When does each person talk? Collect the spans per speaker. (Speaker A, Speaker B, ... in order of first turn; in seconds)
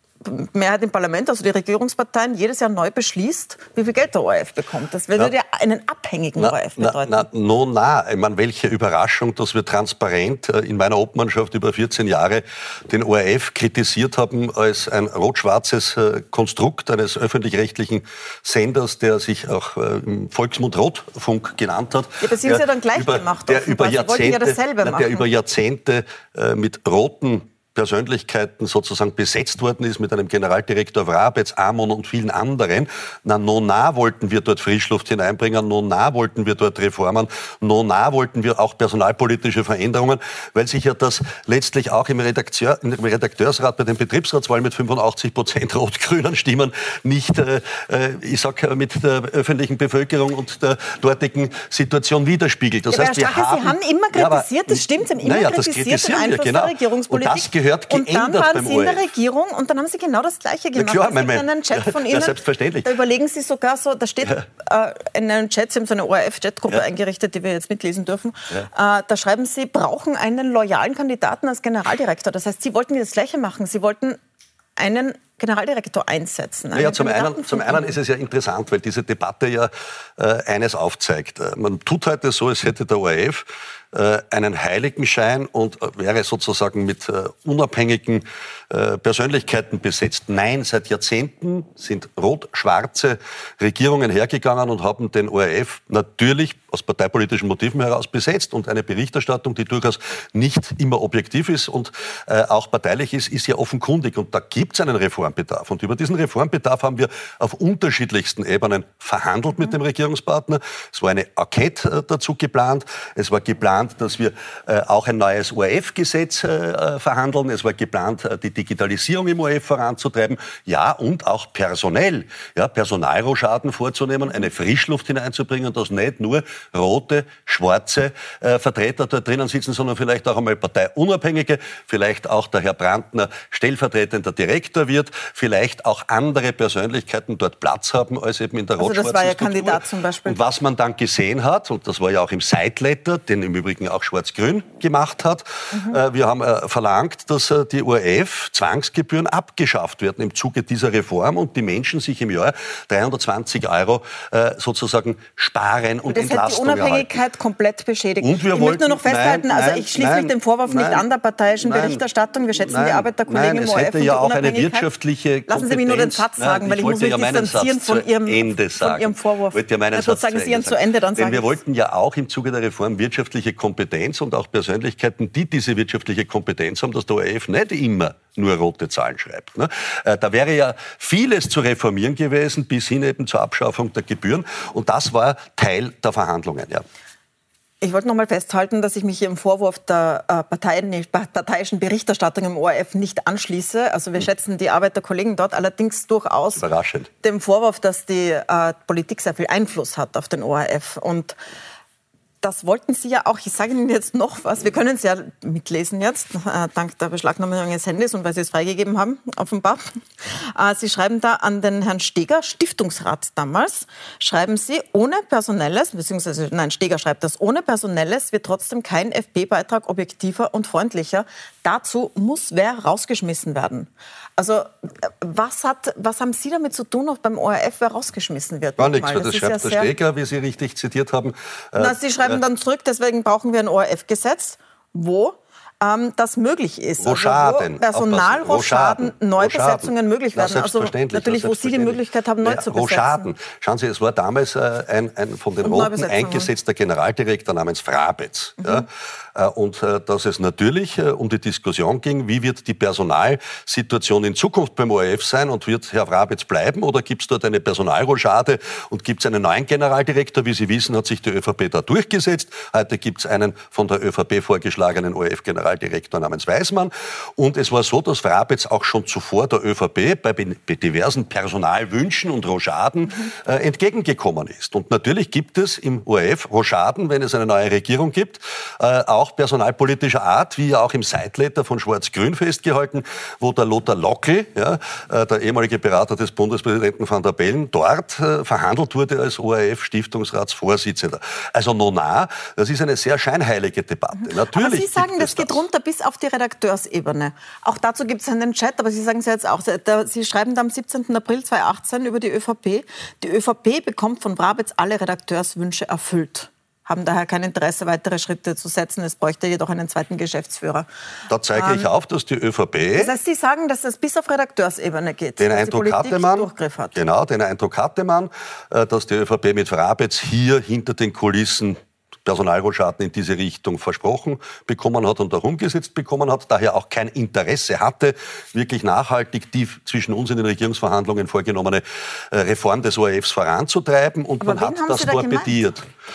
Speaker A: 0.2-7.2, 22.2-25.3, 52.9-74.2, 74.8-78.0, 138.8-140.4, 156.1-164.9, 165.5-171.6, 187.8-196.6, 197.2-201.4, 202.4-229.9, 231.8-243.3, 245.6-246.5, 248.6-248.8, 294.2-310.9, 311.6-311.9, 312.9-317.0, 334.4-335.6
Speaker B: 6.4-59.1, 60.8-62.9, 76.7-157.1, 158.2-161.1, 161.6-162.0, 162.6-186.8, 196.5-197.1, 228.8-232.4, 237.0-295.6, 311.3-313.1, 315.4-335.9